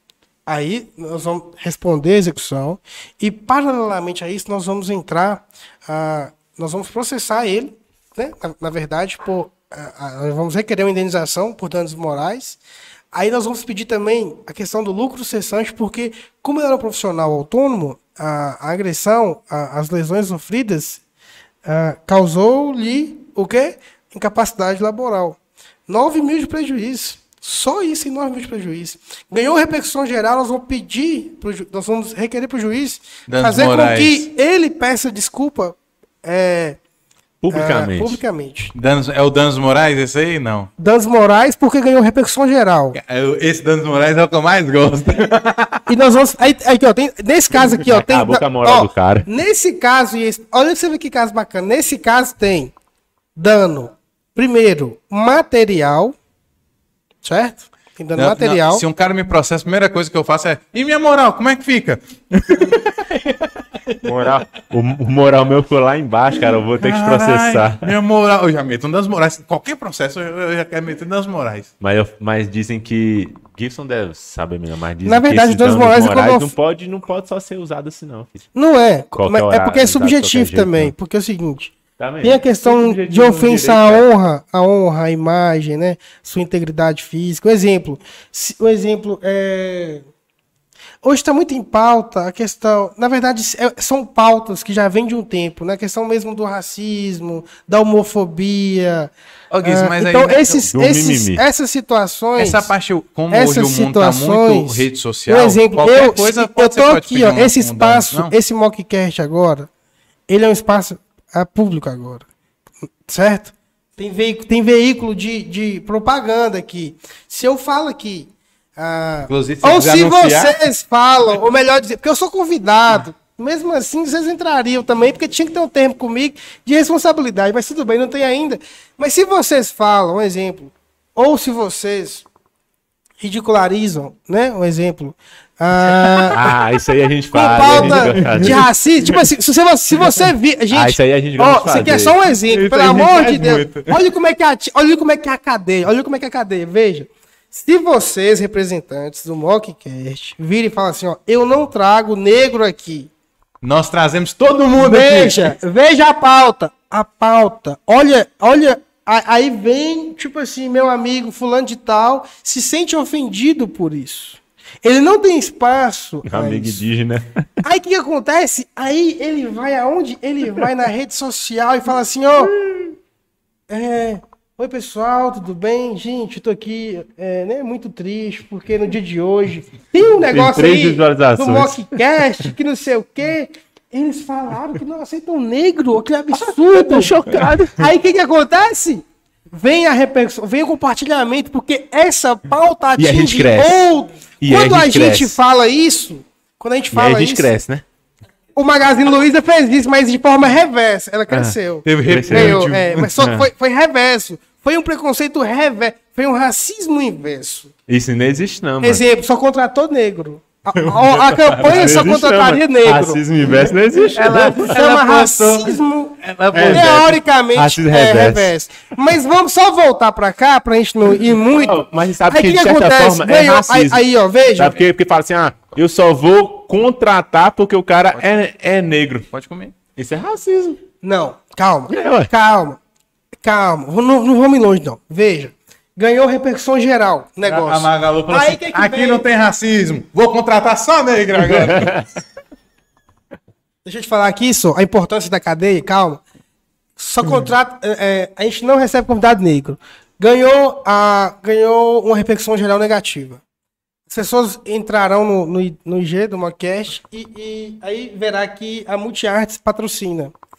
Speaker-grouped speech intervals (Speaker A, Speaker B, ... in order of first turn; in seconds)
Speaker A: 0.5-12.6, 13.1-21.0, 21.6-36.8, 37.5-38.7, 40.8-43.0, 45.9-52.7, 53.4-56.1, 57.2-58.8, 75.0-76.5, 78.5-90.0, 91.0-99.1, 99.6-102.7, 103.3-109.7, 110.3-112.2, 113.0-132.2, 133.2-136.4, 137.3-153.1, 154.8-166.8, 167.6-172.5, 173.7-187.2, 187.8-197.5, 198.6-207.7, 208.8-213.2, 214.6-224.8, 231.0-232.8, 233.4-239.2, 243.8-246.2, 247.0-253.4, 254.1-260.3
Speaker B: 33.3-34.3, 38.7-40.7, 42.9-45.9, 58.1-64.3, 66.8-71.7, 99.5-100.6, 102.4-108.3, 119.3-120.6, 136.0-136.4, 137.5-139.3, 142.5-144.0, 153.6-155.5, 201.8-203.2, 210.7-212.2, 214.1-217.0, 229.3-229.8, 237.4-242.0
Speaker C: 37.4-38.2, 47.9-49.3, 64.0-67.9, 71.8-78.5, 79.2-80.9, 82.0-84.0, 100.7-101.4, 136.3-138.7, 140.7-142.2, 166.2-167.4, 172.4-172.9, 180.3-182.0, 186.7-187.8, 193.0-193.9, 194.4-195.4, 196.9-197.8, 201.3-201.6, 202.1-202.6, 203.2-203.5, 207.9-209.0, 211.6-214.7, 216.5-218.5, 221.5-224.0, 224.6-229.3, 229.9-230.8, 231.9-232.3, 241.5-242.0